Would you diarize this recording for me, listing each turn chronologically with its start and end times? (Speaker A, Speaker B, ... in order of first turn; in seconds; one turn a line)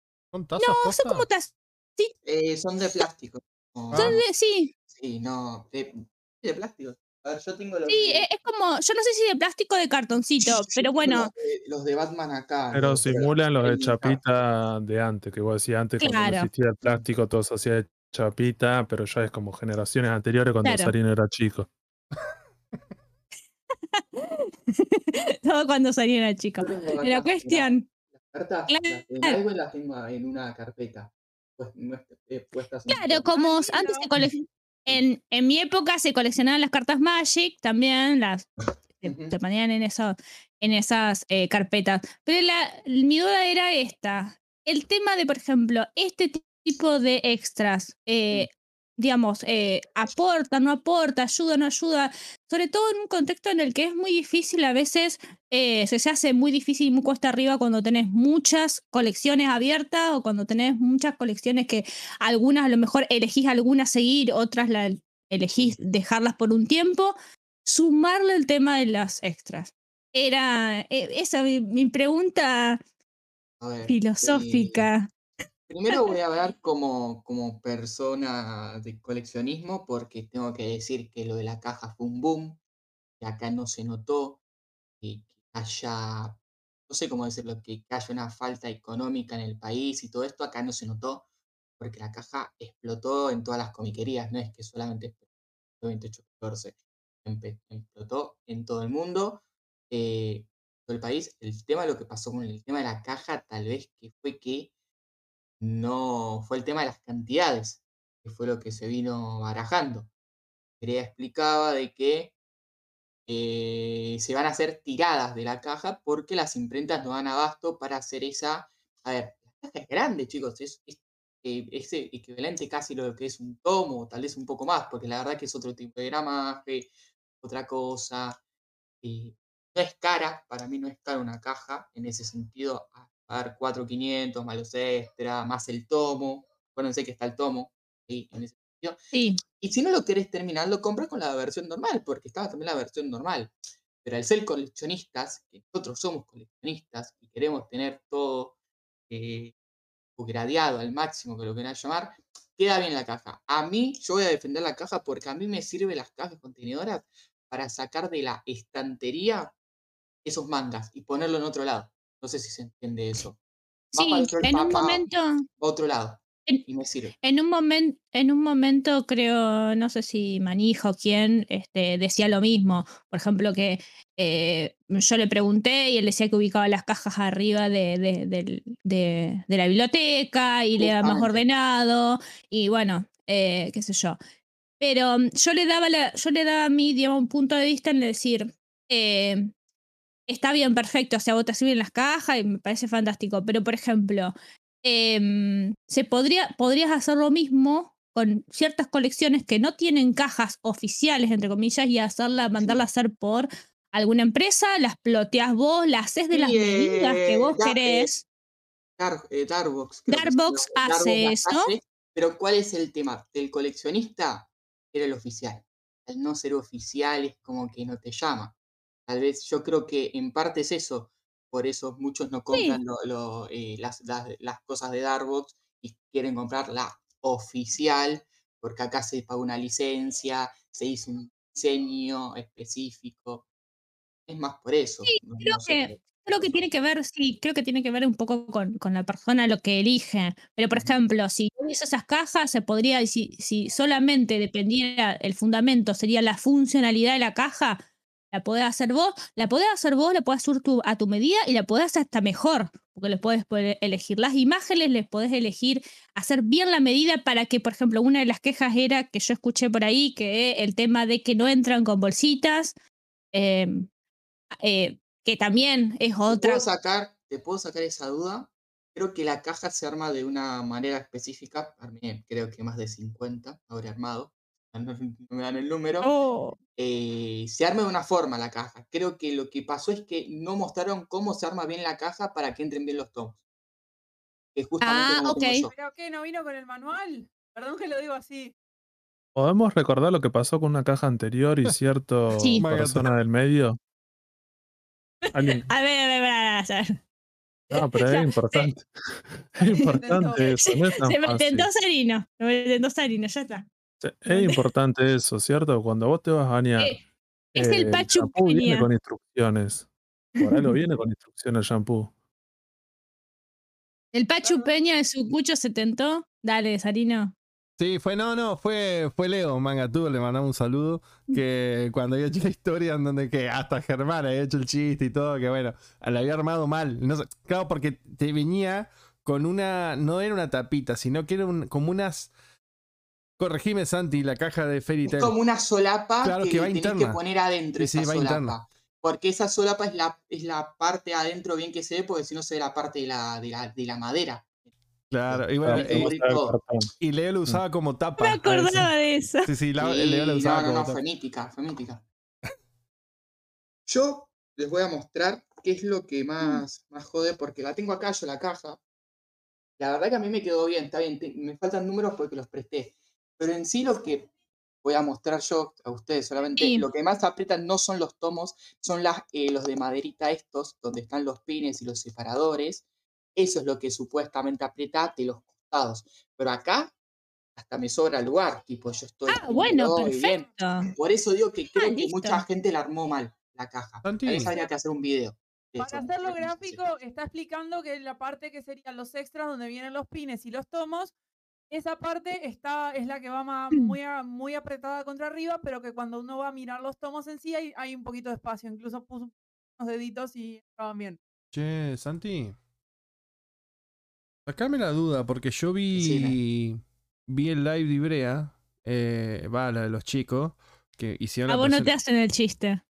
Speaker A: 0.3-1.3
Speaker B: 0.6-2.1
Speaker C: 2.2-4.2
Speaker A: 3.9-4.2
Speaker B: 3.9-4.7
Speaker C: 4.9-8.3
Speaker B: 7.9-11.3
Speaker C: 10.4-14.2
Speaker D: 12.7-21.7
Speaker B: 16.0-16.5
Speaker B: 20.6-20.9
Speaker B: 23.9-27.9
Speaker C: 26.6-33.3
Speaker B: 28.7-29.4
Speaker B: 32.9-38.5
Speaker E: 33.3-34.1
Speaker B: 39.0-72.8
Speaker C: 39.0-39.4
Speaker C: 73.6-74.9
Speaker B: 73.9-75.1
Speaker C: 75.7-82.6
Speaker C: 83.2-84.4
Speaker C: 85.0-91.3
Speaker C: 91.8-95.2
Speaker C: 95.8-104.7
Speaker C: 105.6-110.1
Speaker C: 110.8-112.3
Speaker C: 113.3-126.9
Speaker C: 127.4-128.4
Speaker C: 129.0-139.0
Speaker B: 139.1-139.4
Speaker C: 139.6-148.6
Speaker C: 149.1-149.5
Speaker C: 150.2-159.5
Speaker C: 160.2-163.4
Speaker C: 163.9-165.1
Speaker B: 163.9-165.4
Speaker C: 165.6-167.2
Speaker B: 167.2-184.2
Speaker C: 180.8-181.4
Speaker B: 184.8-189.5
Speaker B: 190.3-208.2
Speaker C: 202.6-202.8
Speaker C: 206.3-208.1
Speaker C: 209.0-218.6
Speaker B: 210.1-211.7
Speaker C: 219.1-233.5
Speaker B: 222.5-222.8
Speaker C: 234.3-236.6
Speaker B: 235.1-262.8
Speaker B: 263.3-263.9
Speaker B: 264.6-266.6
Speaker C: 266.3-276.1
Speaker B: 276.0-276.6
Speaker C: 276.8-283.4
Speaker C: 284.6-285.7
Speaker B: 284.8-285.7
Speaker E: 285.7-288.5
Speaker D: 289.4-293.8
Speaker B: 292.4-292.6
Speaker A: 292.6-293.1
Speaker B: 295.3-297.0
Speaker D: 295.3-295.7
Speaker B: 297.7-298.7
Speaker D: 297.7-298.9
Speaker D: 299.6-301.7
Speaker B: 299.6-303.7
Speaker E: 300.0-300.6
Speaker D: 304.0-307.0
Speaker B: 304.3-304.6
Speaker B: 307.6-308.9
Speaker D: 307.6-309.9
Speaker B: 310.4-310.8
Speaker D: 310.4-312.1
Speaker B: 314.1-317.3
Speaker E: 314.4-314.7
Speaker A: 317.8-332.3
Speaker A: 333.4-335.3
Speaker C: 335.1-344.6
Speaker A: 336.2-337.2
Speaker A: 337.8-338.6
Speaker A: 345.1-346.1
Speaker C: 345.3-346.6
Speaker D: 345.7-346.9
Speaker A: 347.0-348.9
Speaker B: 348.2-349.5
Speaker A: 349.4-351.0
Speaker C: 349.8-352.0
Speaker C: 353.9-358.8
Speaker C: 359.8-364.3
Speaker C: 364.8-372.8
Speaker B: 366.6-366.9
Speaker C: 373.4-376.9
Speaker C: 377.6-386.8
Speaker B: 379.3-380.9
Speaker B: 381.8-382.4
Speaker A: 384.0-384.5
Speaker E: 385.8-391.1
Speaker E: 391.7-401.2
Speaker A: 401.5-402.6
Speaker A: 404.5-411.9
Speaker C: 405.9-406.4
Speaker B: 411.5-412.8